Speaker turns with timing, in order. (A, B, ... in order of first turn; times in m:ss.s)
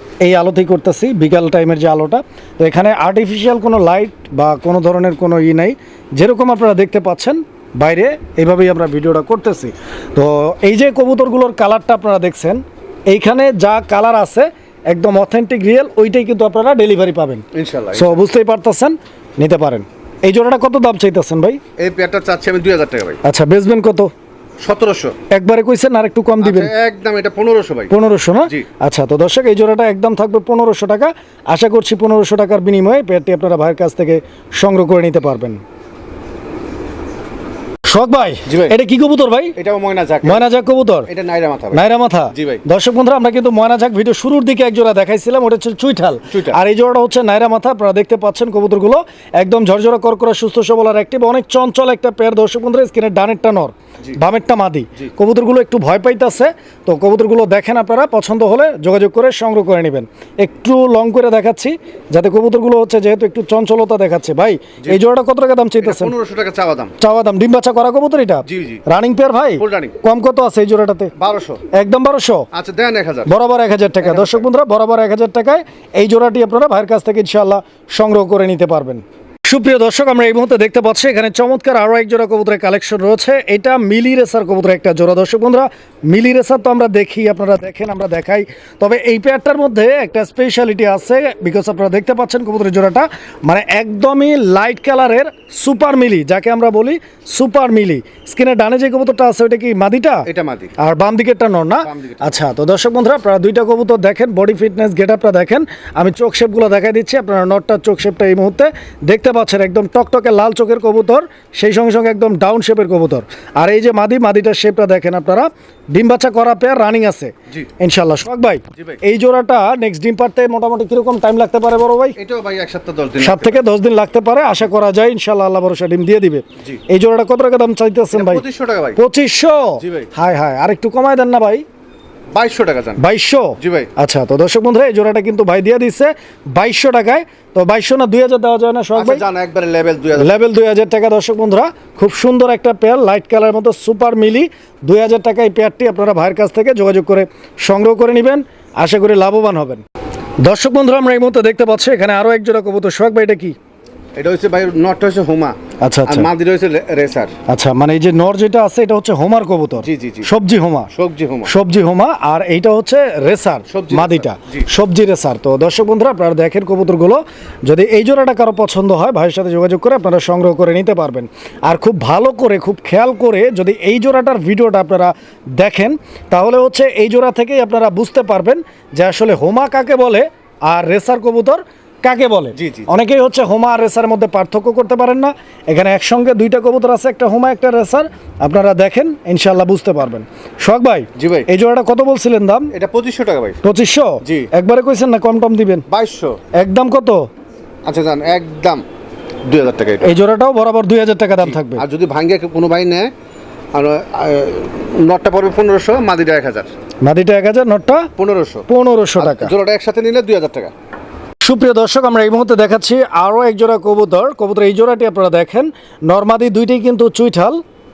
0:00.2-0:21.6 A
0:17.5-0:18.2 B
0:21.8-0:23.2 B
0:23.2-0:24.1 A
0:24.6-0:25.2 B
0:25.3-0:26.7 A
0:26.4-0:27.9 B
0:27.9-0:35.6 A
0:37.9-0:39.6 A
0:38.5-0:38.8 B
0:39.5-0:40.4 B
0:40.2-0:41.1 A
0:41.1-0:42.6 B
0:41.7-1:06.1 A
0:46.3-0:46.6 B
1:05.8-1:06.9 B
1:07.0-1:11.1 A
1:08.5-1:08.8 B
1:09.6-1:10.0 B
1:11.2-1:11.6 B
1:11.7-1:12.5 A
1:12.5-1:13.3 B
1:13.2-1:40.3 A
1:14.0-1:14.4 B
1:40.2-1:40.7 B
1:40.8-2:02.2 A
1:41.8-1:42.4 B
1:58.7-1:59.0 B
2:02.2-2:03.6 B
2:03.2-2:08.4 A
2:08.1-2:09.0 B
2:09.0-2:11.6 A
2:09.8-2:10.1 B
2:12.3-2:13.0 B
2:13.0-2:19.2 A
2:13.6-2:13.9 B
2:18.9-2:20.4 B
2:20.1-2:29.8 A
2:30.4-2:33.6 A
2:34.2-2:37.4 B
2:35.8-2:36.3 A
2:37.5-2:40.9 A
2:39.8-2:40.3 B
2:40.9-2:41.5 B
2:41.4-3:12.7 A
2:43.7-2:44.7 B
3:02.6-3:02.9 B
3:11.2-3:11.5 B
3:12.7-3:13.6 B
3:13.6-3:15.8 A
3:14.2-3:14.5 B
3:15.9-3:16.4 B
3:16.5-3:17.3 A
3:17.8-3:18.8 B
3:19.4-3:20.1 B
3:20.0-3:21.8 A
3:21.4-3:23.1 B
3:23.7-3:26.7 B
3:27.0-3:28.1 A
3:28.2-3:28.7 B
3:28.7-3:29.5 A
3:29.2-3:30.7 B
3:31.4-3:37.6 A